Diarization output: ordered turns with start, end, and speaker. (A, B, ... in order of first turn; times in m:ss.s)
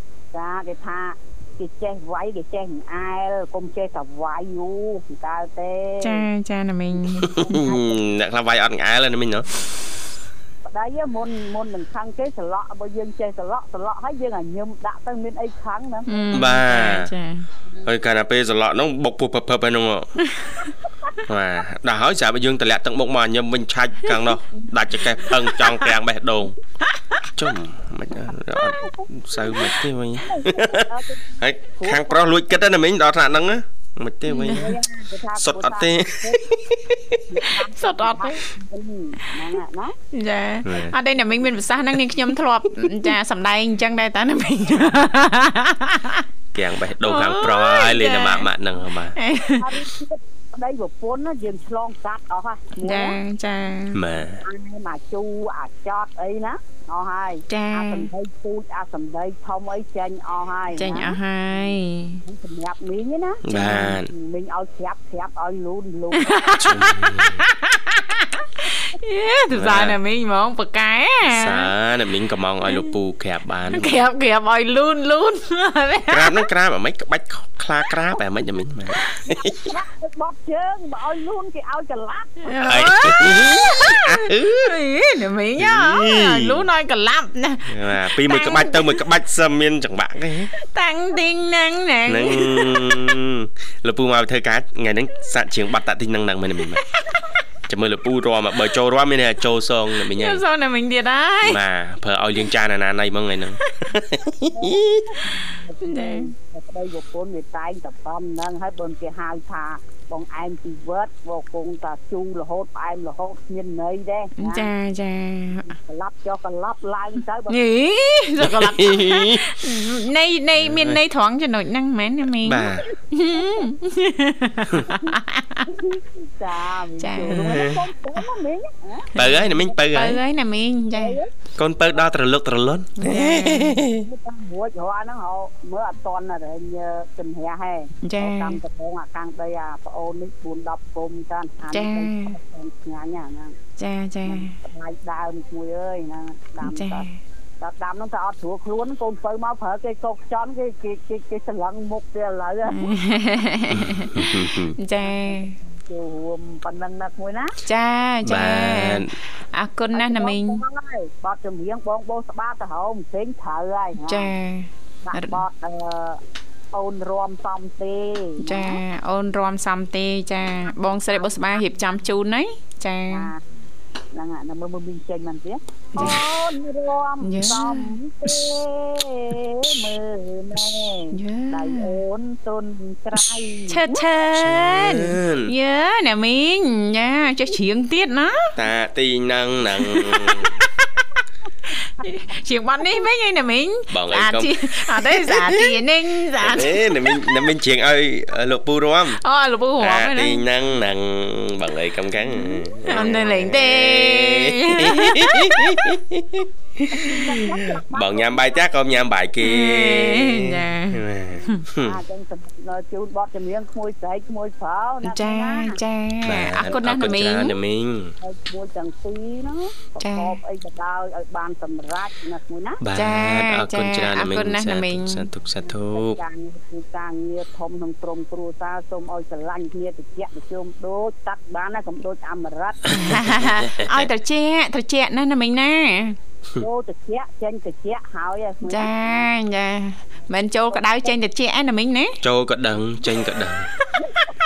0:00.3-0:06.3 A
0:06.0-0:07.6 B
0:07.2-0:08.0 A
0:07.2-0:09.5 C
0:10.7-0:16.5 A
0:16.1-0:17.5 B
0:16.3-0:17.1 C
0:17.8-0:20.2 C
0:20.2-0:20.7 B
0:21.3-0:26.6 C
0:24.6-0:25.3 A
0:25.5-0:25.9 B
0:26.9-0:27.2 B
0:27.4-0:34.8 C
0:28.7-0:29.1 A
0:30.2-0:32.6 A
0:34.3-0:34.8 B
0:34.5-0:36.5 A
0:35.4-0:37.2 C
0:37.3-0:40.0 A
0:37.8-0:38.4 B
0:40.1-0:46.2 B
0:40.6-0:41.0 C
0:46.5-0:49.2 C
0:47.0-0:48.5 B
0:49.2-0:49.8 B
0:49.5-0:53.2 A
0:52.8-0:54.0 B
0:53.9-0:54.4 C
0:54.4-1:01.7 A
0:57.5-0:58.1 B
1:00.8-1:02.2 B
1:02.2-1:03.5 A
1:03.4-1:04.1 C
1:03.5-1:03.9 B
1:04.1-1:06.6 A
1:06.2-1:11.7 B
1:06.6-1:07.4 C
1:09.5-1:10.0 C
1:11.3-1:14.0 C
1:13.7-1:16.4 B
1:16.1-1:19.7 C
1:19.3-1:22.6 A
1:22.4-1:29.0 B
1:22.7-1:24.8 C
1:25.6-1:26.6 C
1:27.7-1:30.5 C
1:30.6-1:33.1 B
1:32.1-1:36.8 C
1:36.8-1:37.2 B
1:37.7-1:40.4 C
1:40.1-1:41.6 B
1:41.4-1:45.0 C
1:44.5-1:54.7 A
1:45.8-1:46.3 B
1:54.4-1:55.8 B
1:55.7-1:57.6 A
1:57.5-2:05.7 B
1:58.4-1:59.6 C
2:00.6-2:01.0 C
2:02.4-2:02.9 C
2:03.4-2:03.7 A
2:04.9-2:05.1 A
2:05.6-2:09.6 A
2:07.0-2:07.6 B
2:07.3-2:07.8 C
2:09.2-2:10.2 C
2:09.2-2:11.2 B
2:10.9-2:11.3 A
2:11.6-2:14.1 C
2:13.0-2:13.8 B
2:13.9-2:23.6 A
2:18.0-2:18.6 B
2:21.7-2:22.4 B
2:23.8-2:24.6 B
2:24.3-2:27.1 A
2:26.6-2:27.2 B
2:27.6-2:33.0 A
2:32.7-2:35.6 B
2:33.7-2:34.8 C
2:35.0-2:37.6 A
2:37.6-2:40.6 B
2:38.2-2:39.1 C
2:39.9-2:44.3 A
2:44.0-2:45.4 B
2:45.0-2:46.2 A
2:46.7-2:48.8 A
2:48.4-2:53.3 B
2:50.7-2:51.8 A
2:53.1-2:53.4 A
2:54.1-3:04.0 A
2:56.0-2:56.2 B
2:57.2-2:58.0 B
3:01.1-3:02.0 B
3:03.7-3:08.6 B
3:04.3-3:05.5 C
3:08.6-3:10.6 C
3:09.8-3:11.1 B
3:11.8-3:17.4 B
3:13.9-3:15.8 C
3:16.4-3:19.2 C
3:19.2-3:20.4 B
3:19.8-3:32.0 C
3:22.5-3:23.3 A
3:22.8-3:25.9 B
3:26.9-3:28.6 A
3:29.4-3:31.6 B
3:31.8-3:35.8 A
3:35.0-3:37.6 B
3:36.2-3:38.1 C
3:38.2-3:42.8 A
3:40.0-3:40.4 B
3:42.8-3:46.2 C
3:43.0-3:45.3 B
3:45.6-3:53.0 A
3:52.9-3:54.1 C
3:52.9-3:56.2 B
3:56.6-3:59.3 A
3:58.6-4:02.2 B
4:02.2-4:03.8 C